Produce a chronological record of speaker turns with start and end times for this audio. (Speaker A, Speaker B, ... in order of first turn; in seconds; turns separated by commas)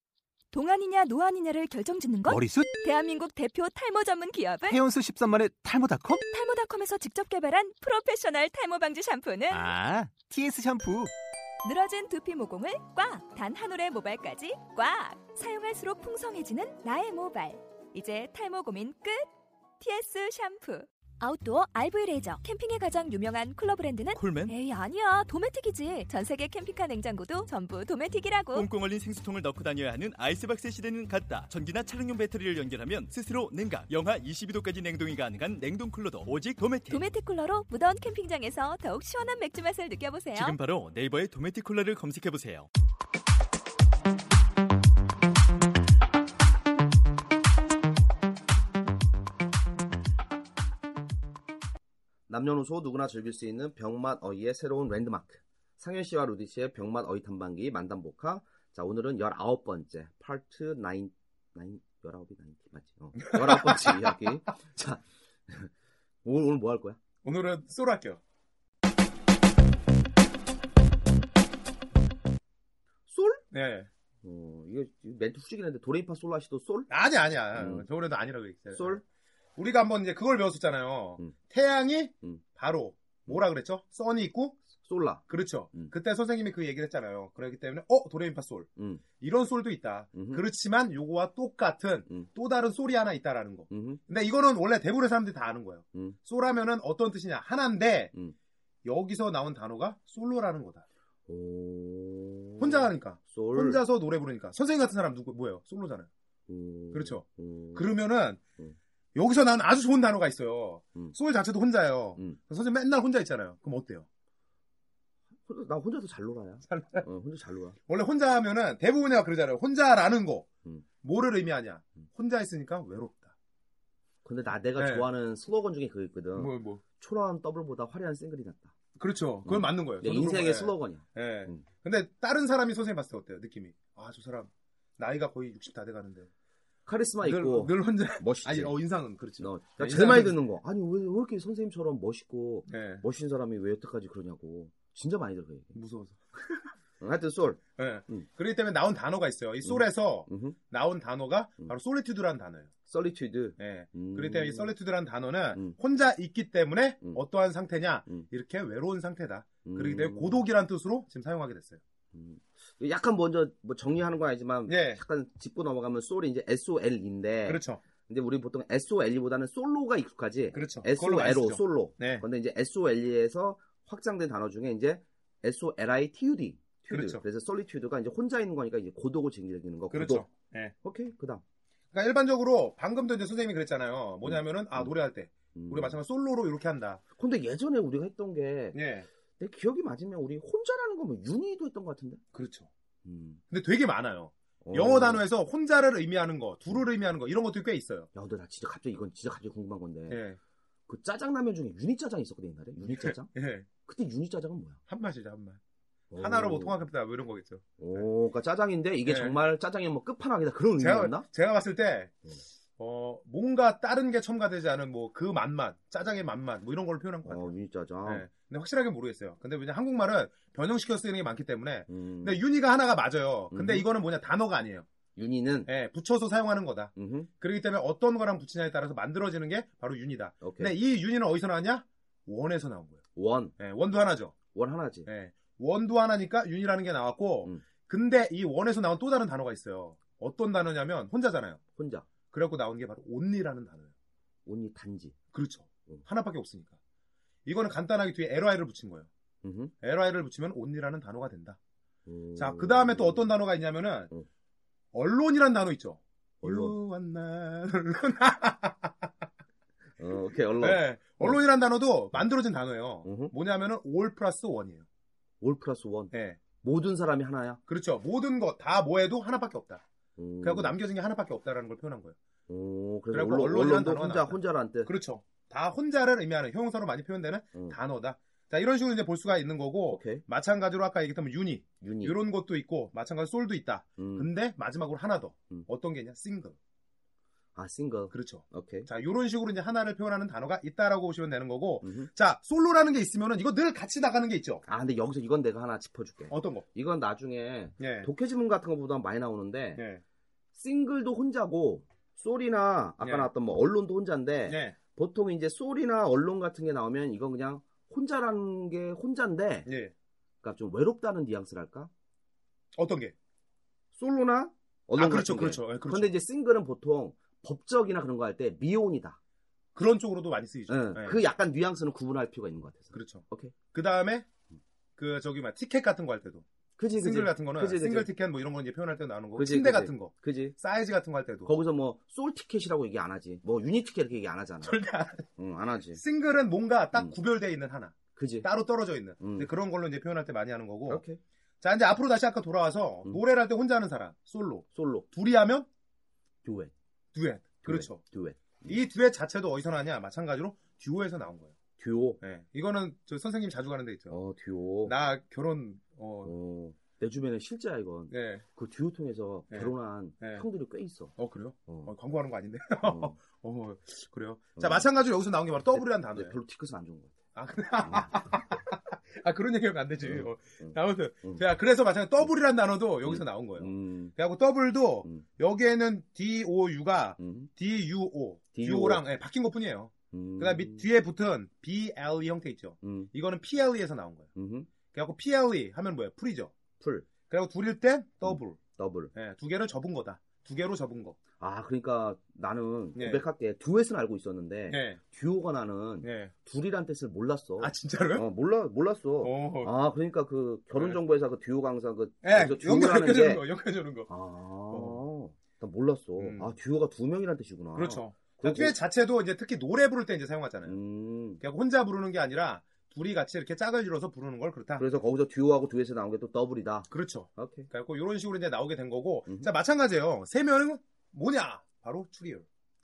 Speaker A: 0.5-4.8, Speaker B: 2.3-2.7, Speaker B: 4.7-6.2, Speaker A: 6.1-9.7, Speaker C: 9.5-11.1, Speaker B: 10.2-10.8, Speaker A: 11.6-19.2, Speaker A: 19.8-28.7, Speaker C: 24.1-24.5, Speaker C: 28.5-37.1, Speaker A: 36.9-40.6, Speaker C: 40.3-42.7, Speaker D: 52.3-65.7, Speaker E: 63.3-64.0, Speaker D: 66.2-67.0, Speaker E: 67.2-68.2, Speaker D: 73.1-73.4, Speaker E: 73.5-73.9, Speaker D: 74.2-77.9, Speaker E: 76.9-79.0, Speaker D: 78.7-79.0, Speaker E: 79.6-84.6, Speaker D: 84.8-85.2, Speaker E: 85.3-98.1, Speaker D: 88.8-89.0, Speaker D: 90.1-90.4, Speaker D: 93.7-94.0, Speaker E: 98.8-100.8, Speaker D: 101.3-103.8, Speaker E: 102.6-106.1, Speaker D: 106.5-108.0, Speaker E: 106.9-108.4, Speaker E: 109.1-114.0, Speaker D: 115.4-117.8, Speaker E: 116.7-117.0, Speaker E: 117.9-120.5, Speaker E: 121.0-123.3, Speaker D: 124.2-128.7, Speaker E: 124.8-125.1, Speaker E: 126.3-126.8, Speaker E: 129.0-136.3, Speaker D: 129.4-131.6, Speaker D: 136.8-138.8, Speaker E: 137.2-140.4, Speaker D: 139.4-145.8, Speaker E: 142.7-143.0, Speaker E: 145.7-146.7, Speaker D: 147.0-148.3, Speaker E: 147.8-152.7, Speaker D: 149.6-150.6, Speaker D: 152.8-154.8, Speaker E: 153.6-161.8, Speaker D: 159.6-160.4, Speaker D: 162.1-180.3, Speaker E: 164.7-165.0, Speaker E: 167.4-167.8, Speaker E: 170.5-172.2, Speaker E: 176.9-177.2, Speaker E: 179.9-180.7, Speaker D: 180.8-181.4, Speaker E: 181.9-187.0, Speaker D: 184.2-184.9, Speaker D: 185.5-186.0, Speaker D: 187.1-188.8, Speaker E: 188.7-189.1, Speaker D: 189.4-192.2, Speaker E: 192.3-192.7, Speaker D: 193.0-193.4, Speaker E: 193.5-198.1, Speaker D: 194.6-195.3, Speaker D: 198.1-200.2, Speaker E: 200.1-200.4, Speaker D: 200.9-203.3, Speaker E: 202.8-203.7, Speaker D: 203.8-204.8, Speaker E: 204.9-205.6, Speaker D: 206.1-206.8, Speaker E: 206.2-208.1, Speaker D: 207.8-211.3, Speaker E: 209.1-209.4, Speaker E: 210.8-212.2, Speaker E: 212.8-217.5, Speaker D: 217.2-218.3, Speaker E: 218.0-224.8, Speaker D: 221.9-222.4, Speaker D: 223.5-223.9, Speaker D: 225.1-225.7, Speaker E: 225.7-233.0, Speaker D: 226.9-227.3, Speaker D: 230.4-230.8, Speaker D: 233.2-233.5, Speaker E: 233.6-234.4, Speaker D: 234.5-235.1, Speaker E: 235.1-241.6, Speaker D: 241.7-242.1, Speaker E: 242.3-243.9, Speaker D: 244.4-245.2, Speaker E: 245.3-246.8, Speaker E: 247.4-249.1, Speaker D: 249.4-249.7, Speaker E: 249.8-251.6, Speaker D: 252.1-253.3, Speaker E: 252.3-254.1, Speaker E: 254.9-259.1, Speaker D: 256.4-256.8, Speaker D: 260.0-261.4, Speaker E: 260.6-264.9, Speaker D: 263.0-263.3, Speaker D: 265.4-267.6, Speaker E: 266.1-266.4, Speaker E: 267.7-269.8, Speaker D: 270.1-270.8, Speaker E: 270.4-272.1, Speaker D: 272.5-274.9, Speaker E: 273.1-286.6, Speaker D: 279.9-280.2, Speaker D: 281.8-282.2, Speaker D: 284.0-284.3, Speaker D: 287.6-288.9, Speaker E: 288.1-294.6, Speaker D: 291.8-292.1, Speaker D: 294.6-299.8, Speaker E: 296.3-296.6, Speaker E: 297.8-298.1, Speaker E: 299.8-300.0, Speaker D: 300.5-309.7, Speaker E: 303.0-303.3, Speaker E: 304.5-304.8, Speaker E: 309.6-309.9, Speaker D: 310.4-311.9, Speaker E: 312.8-313.1, Speaker D: 313.9-319.2, Speaker E: 314.9-316.1, Speaker E: 319.7-321.2, Speaker D: 320.7-323.5, Speaker E: 322.9-324.3, Speaker E: 325.0-331.5, Speaker D: 326.8-328.1, Speaker D: 329.3-330.6, Speaker D: 331.4-334.8, Speaker E: 334.6-335.3, Speaker D: 335.4-336.0, Speaker E: 335.9-341.0, Speaker D: 338.1-338.5, Speaker D: 339.2-339.5, Speaker D: 340.9-341.2, Speaker E: 341.6-345.7, Speaker D: 344.7-345.1, Speaker D: 346.4-346.7, Speaker E: 347.1-348.0, Speaker D: 347.6-348.8, Speaker E: 348.6-351.5, Speaker D: 351.8-352.2, Speaker E: 352.2-354.2, Speaker D: 354.1-354.9, Speaker E: 354.8-356.4, Speaker D: 356.2-361.1, Speaker E: 358.1-358.4, Speaker E: 359.5-360.4, Speaker E: 361.2-366.4, Speaker D: 361.7-361.9, Speaker D: 362.8-363.2, Speaker D: 364.6-364.9, Speaker D: 365.7-367.1, Speaker E: 367.3-384.3, Speaker D: 367.8-368.3, Speaker D: 370.0-371.4, Speaker D: 373.0-374.1, Speaker D: 377.2-377.5, Speaker D: 378.5-379.0, Speaker D: 380.1-380.9, Speaker D: 382.8-383.1, Speaker D: 384.3-384.7, Speaker E: 384.9-386.5, Speaker D: 386.8-387.1, Speaker E: 387.3-388.6, Speaker D: 388.2-389.1, Speaker E: 389.1-391.2, Speaker D: 391.4-403.4, Speaker E: 392.9-393.2, Speaker E: 394.7-395.0, Speaker E: 396.0-396.3, Speaker E: 397.6-398.2, Speaker E: 399.2-399.7, Speaker E: 400.7-401.0, Speaker E: 402.2-404.1, Speaker D: 404.1-408.8, Speaker E: 404.7-405.0, Speaker E: 406.2-406.6, Speaker E: 407.8-410.8, Speaker D: 410.6-411.4, Speaker E: 411.4-414.9, Speaker D: 414.8-417.7, Speaker E: 416.9-422.4